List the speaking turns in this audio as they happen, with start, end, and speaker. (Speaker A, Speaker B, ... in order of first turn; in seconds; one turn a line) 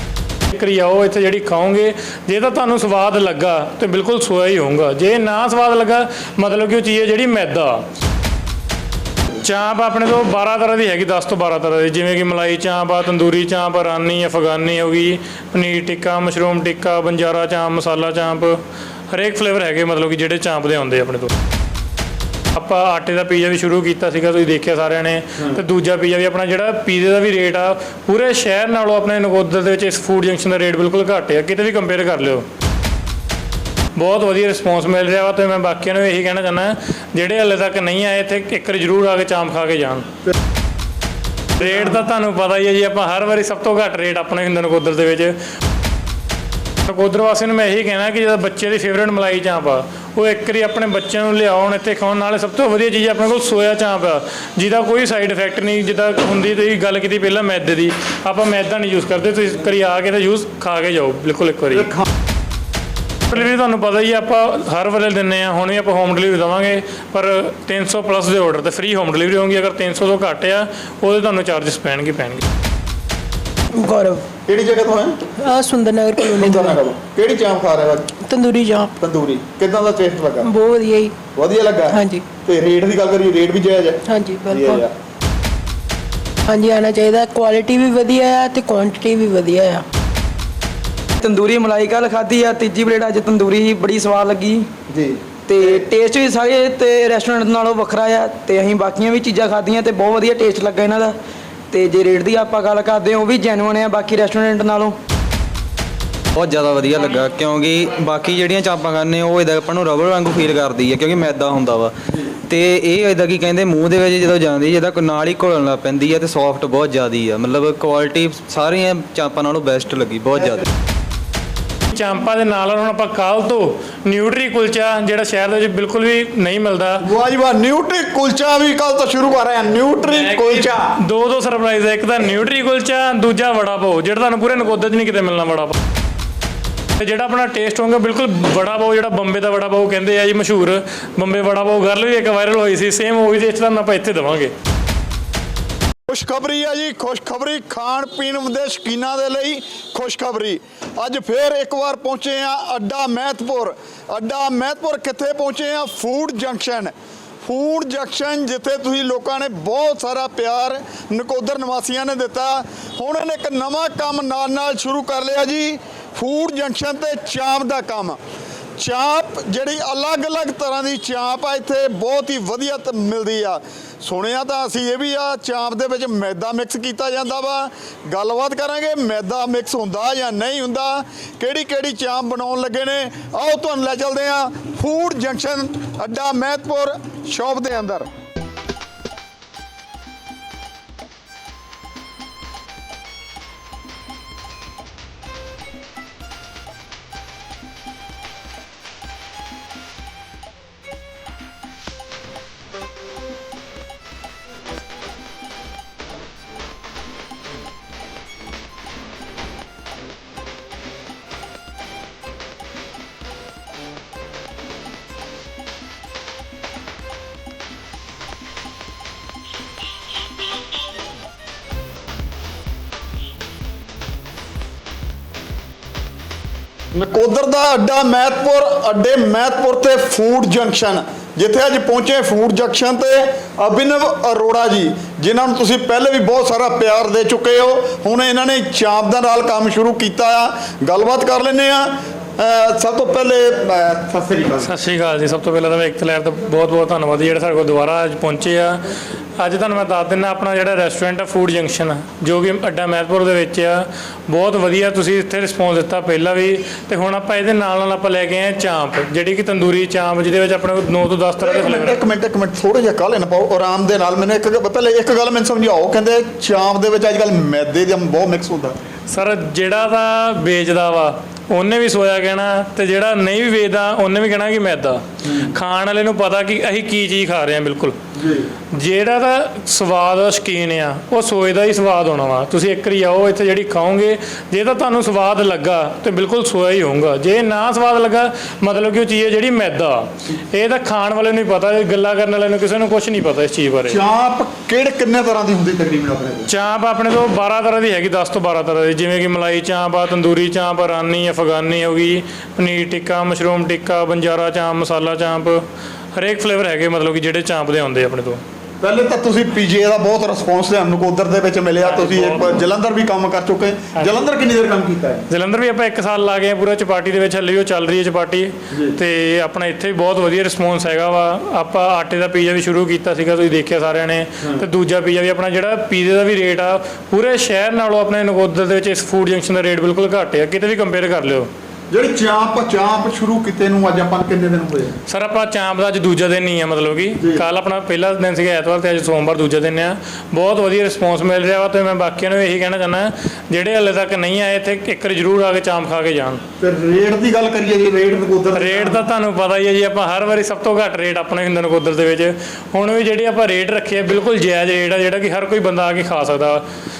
Speaker A: 0.5-7.8
Speaker A: 9.4-21.3
Speaker A: 22.5-32.4
Speaker A: 33.9-40.0
Speaker A: 41.6-45.4
Speaker B: 41.6-42.0
Speaker A: 46.9-61.9
Speaker B: 61.7-62.0
Speaker A: 63.3-72.4
Speaker C: 73.7-74.2
Speaker B: 74.5-75.2
Speaker C: 75.4-76.8
Speaker B: 76.3-78.1
Speaker C: 78.2-78.9
Speaker B: 79.0-80.5
Speaker C: 80.4-81.1
Speaker B: 81.3-84.9
Speaker C: 81.9-82.2
Speaker C: 84.1-84.8
Speaker C: 86.5-89.8
Speaker D: 91.2-94.7
Speaker B: 94.9-95.7
Speaker D: 95.5-101.2
Speaker D: 101.7-105.0
Speaker E: 106.3-111.9
Speaker E: 112.5-120.6
Speaker A: 121.9-127.0
Speaker B: 127.0-130.9
Speaker A: 130.0-135.8
Speaker A: 137.0-144.5
Speaker B: 146.1-156.9
Speaker B: 157.4-168.2
Speaker B: 168.8-188.1
Speaker B: 226.9-244.7
Speaker A: 244.6-248.8
Speaker A: 249.4-262.0
Speaker B: 261.4-268.8
Speaker A: 269.1-277.9
Speaker B: 275.2-275.6
Speaker B: 278.1-278.5
Speaker A: 278.7-294.0
Speaker B: 293.9-296.5
Speaker A: 296.5-305.6
Speaker A: 306.1-308.4
Speaker B: 308.8-315.3
Speaker A: 311.8-312.6
Speaker A: 313.9-314.2
Speaker A: 315.3-331.5
Speaker B: 318.7-319.0
Speaker B: 331.9-334.9
Speaker A: 335.1-346.4
Speaker B: 337.2-337.4
Speaker B: 346.6-349.1
Speaker A: 348.5-356.6